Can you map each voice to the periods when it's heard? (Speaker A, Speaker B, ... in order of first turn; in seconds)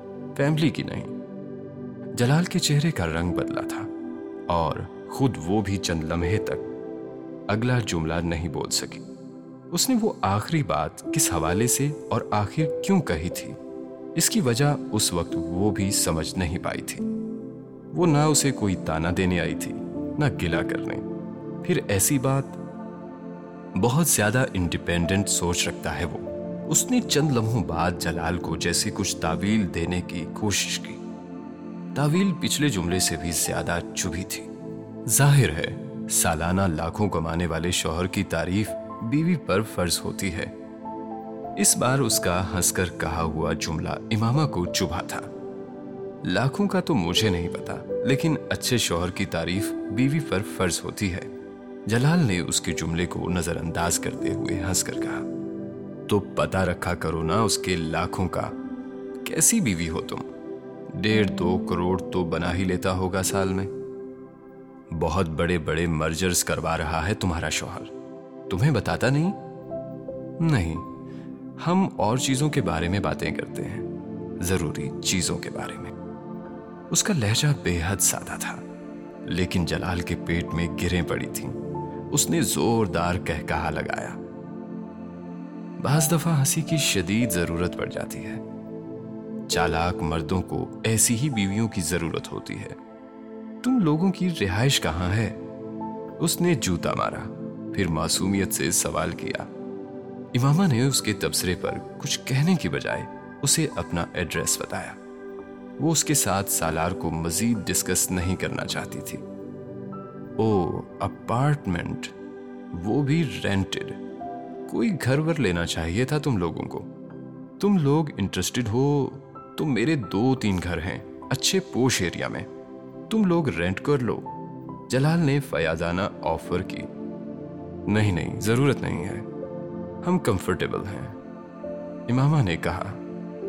Speaker A: 0.3-1.1, 2.1-3.9, 4.5-6.7, 7.5-9.0, 9.7-13.6, 14.1-17.0, 17.9-21.0, 21.6-22.6, 23.7-31.0, 31.9-34.5, 35.0-40.5, 41.6-45.3, 46.2-51.3, 51.9-55.2, 56.1-58.5, 59.2-60.3, 60.9-63.7, 64.9-67.9, 68.5-69.4, 70.4-70.9, 71.6-73.9, 74.4-75.9, 76.9-78.6, 79.2-81.6, 82.1-84.2, 85.8-88.4, 89.5-92.8, 93.6-95.4, 96.2-99.5, 100.3-105.0, 105.8-109.2, 110.4-112.1, 112.7-114.0, 114.7-116.9, 117.6-122.5, 123.1-124.3, 124.9-126.9, 127.9-129.3, 130.0-131.2, 132.1-133.0